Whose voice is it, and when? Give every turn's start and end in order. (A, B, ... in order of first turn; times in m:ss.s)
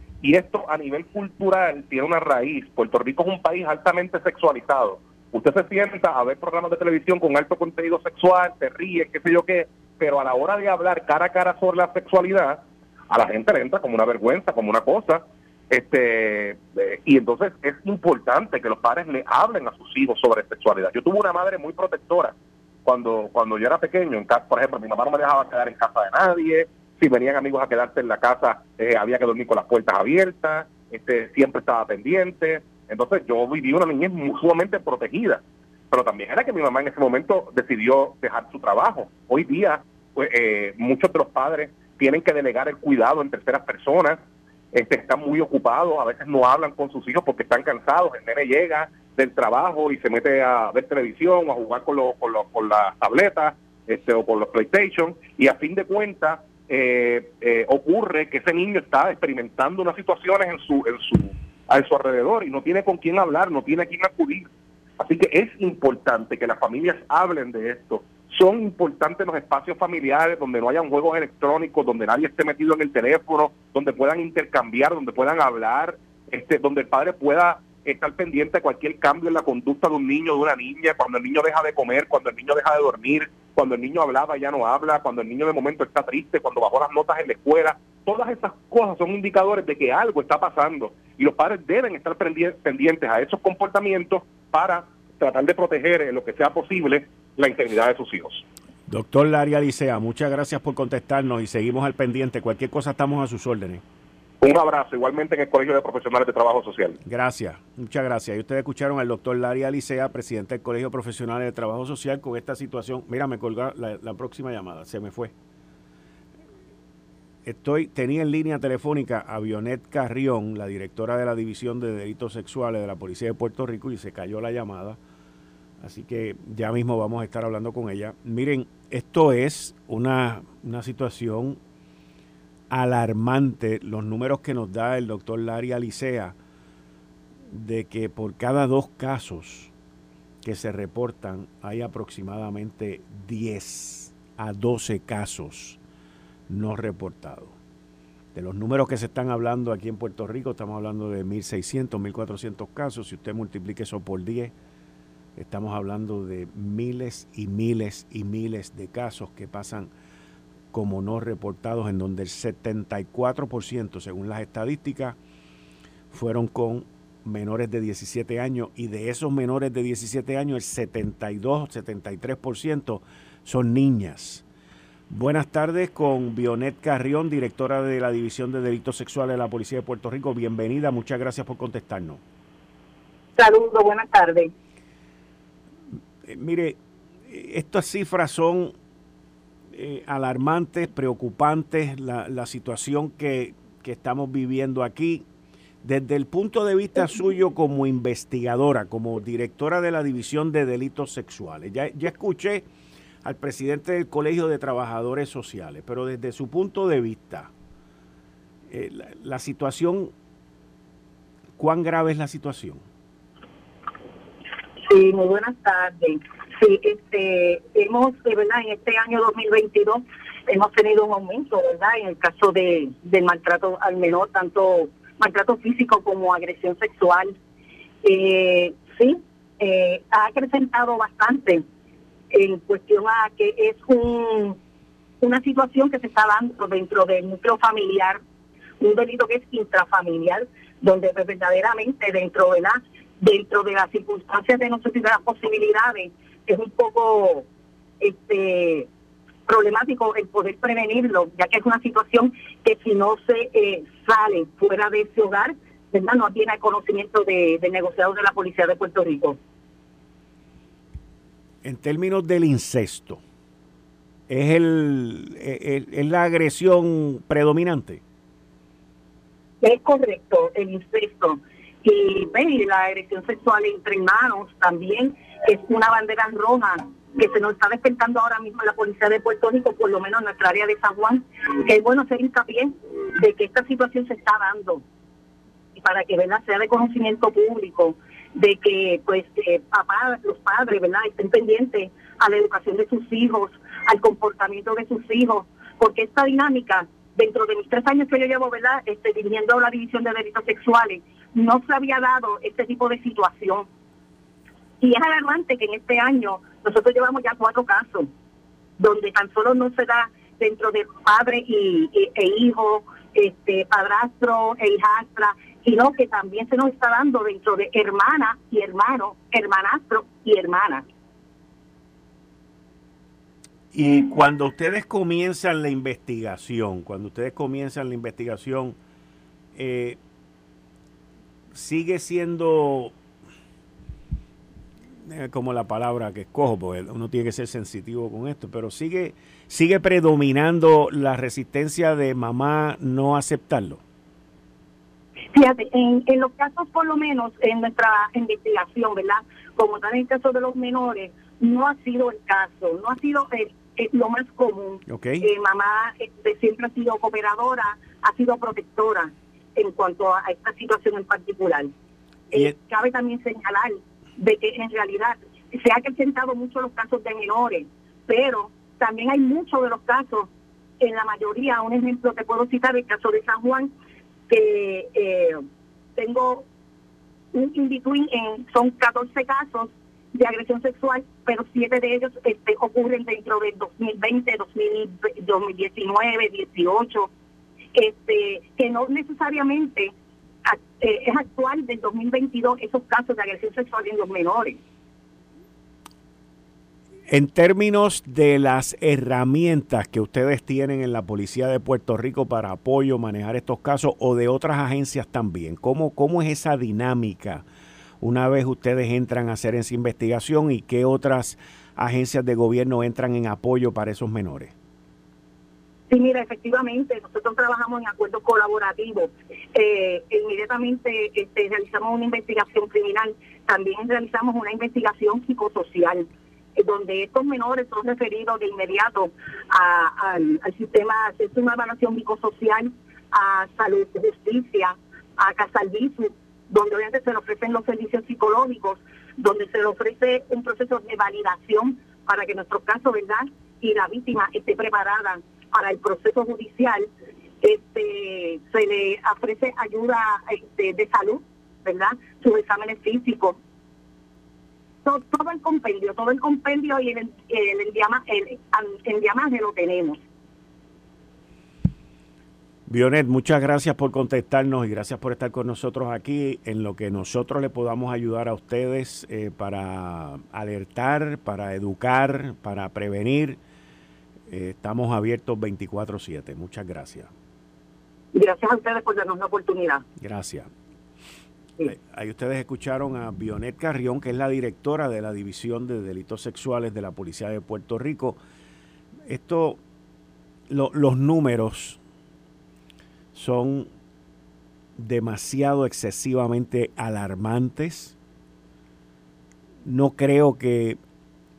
0:00.2-0:44.2 A
0:44.7-1:38.4 A
1:38.9-1:43.8 B
1:44.4-1:47.0 A
1:47.0-1:55.3 B
1:57.4-2:05.0 B
2:05.8-2:11.6 B
2:12.7-2:16.4 B
2:17.5-2:19.7 B
2:20.4-2:25.8 B
2:26.5-2:27.6 B
2:28.3-2:34.5 B
2:35.4-2:39.9 B
2:40.7-2:45.2 B
2:46.1-2:54.4 B
2:55.1-3:02.2 B
3:03.4-3:04.5 C
3:06.2-3:08.7 B
3:09.7-3:15.2 B
3:15.8-3:22.6 B
3:23.2-3:27.5 B
3:28.7-3:30.1 B
3:31.6-3:32.8 B
3:34.8-3:47.3 C
3:48.0-3:51.6 C
3:52.3-3:54.6 C
3:55.2-3:58.2 C
3:58.8-4:07.4 C
4:08.0-4:08.9 C
4:09.5-4:19.4 C
4:21.6-4:23.2 B
4:24.3-4:28.0 B
4:29.6-4:44.8 C
4:45.8-5:03.7 C
5:04.8-5:08.1 C
5:08.8-5:20.9 C
5:23.7-5:28.8 B
5:29.6-5:30.0 B
5:31.5-5:32.9 B
5:35.0-5:43.8 B
5:45.3-6:01.7 C
5:54.9-5:55.2 B
6:02.3-6:13.7 C
6:14.3-6:15.4 C
6:16.0-6:16.4 C
6:17.3-6:27.1 C
6:27.7-6:29.9 C
6:30.4-6:34.6 C
6:37.1-6:47.4 B
6:48.0-6:54.5 B
6:55.9-7:26.9 C
7:27.4-7:33.4 C
7:34.8-7:40.0 C
7:42.7-7:53.4 B
7:54.3-7:57.1 B
7:58.1-7:59.8 C
8:00.0-8:00.5 B
8:01.6-8:08.2 B
8:09.1-8:09.6 B
8:10.5-8:11.8 B
8:13.1-8:13.7 B
8:14.8-8:17.9 B
8:19.6-8:20.8 B